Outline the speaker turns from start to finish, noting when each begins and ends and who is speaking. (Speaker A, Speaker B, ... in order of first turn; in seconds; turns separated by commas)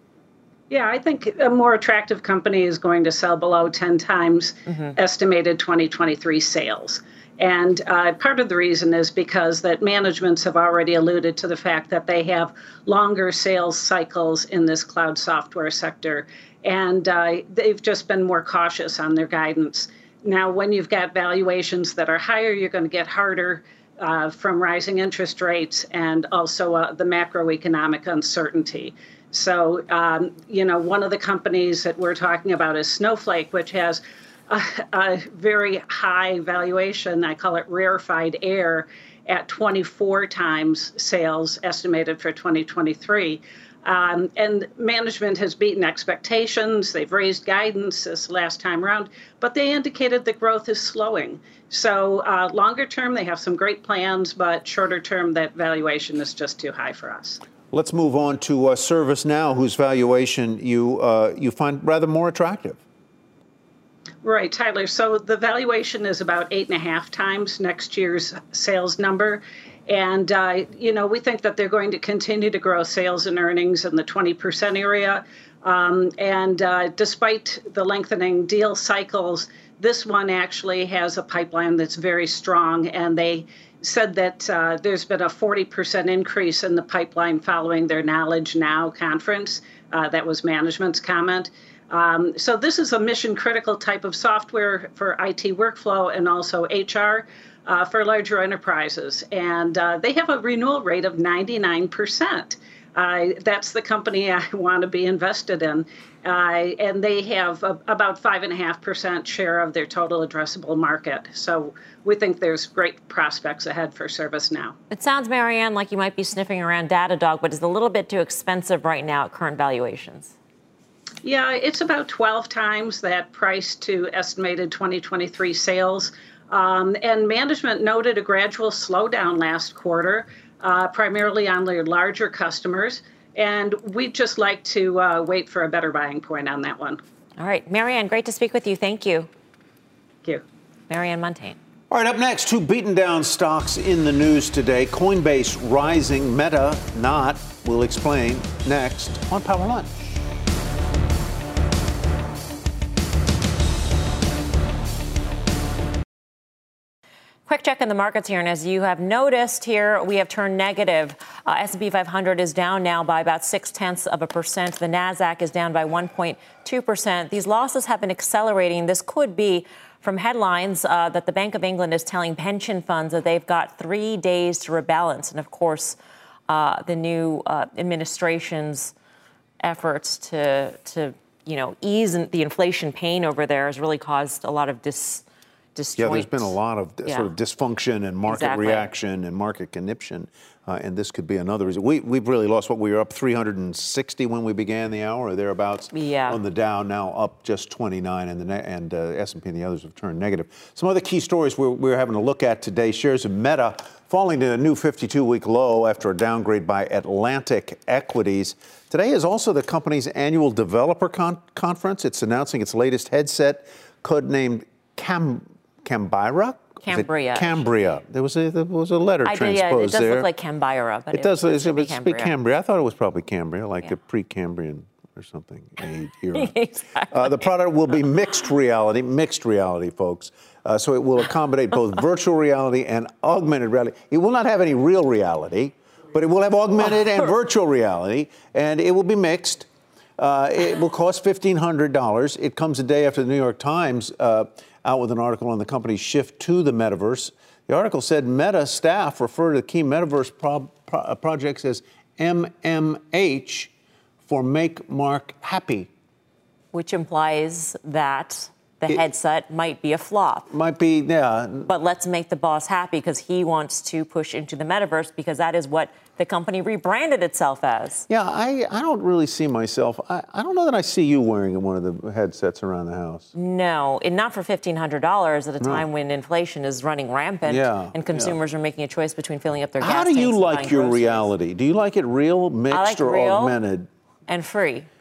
Speaker A: 0.7-57.4, Speaker B: 57.7-62.8, Speaker A: 64.2-114.7, Speaker C: 114.9-120.3, Speaker A: 121.2-137.0, Speaker C: 137.4-139.3, Speaker C: 140.9-141.6, Speaker B: 141.9-150.2, Speaker C: 157.5-176.0, Speaker C: 176.5-178.9, Speaker C: 179.6-185.2, Speaker C: 185.7-187.3, Speaker B: 186.0-220.3, Speaker C: 188.3-188.9, Speaker C: 195.9-196.4, Speaker C: 216.8-218.0, Speaker C: 219.2-222.3, Speaker B: 221.1-253.7, Speaker C: 226.3-227.1, Speaker B: 254.2-255.9, Speaker C: 256.7-260.5, Speaker B: 260.5-261.7, Speaker C: 261.6-268.1, Speaker B: 268.1-273.3, Speaker C: 273.3-281.3, Speaker B: 275.6-275.8, Speaker B: 277.4-278.3, Speaker B: 279.8-283.9, Speaker C: 282.7-283.6, Speaker C: 284.3-284.9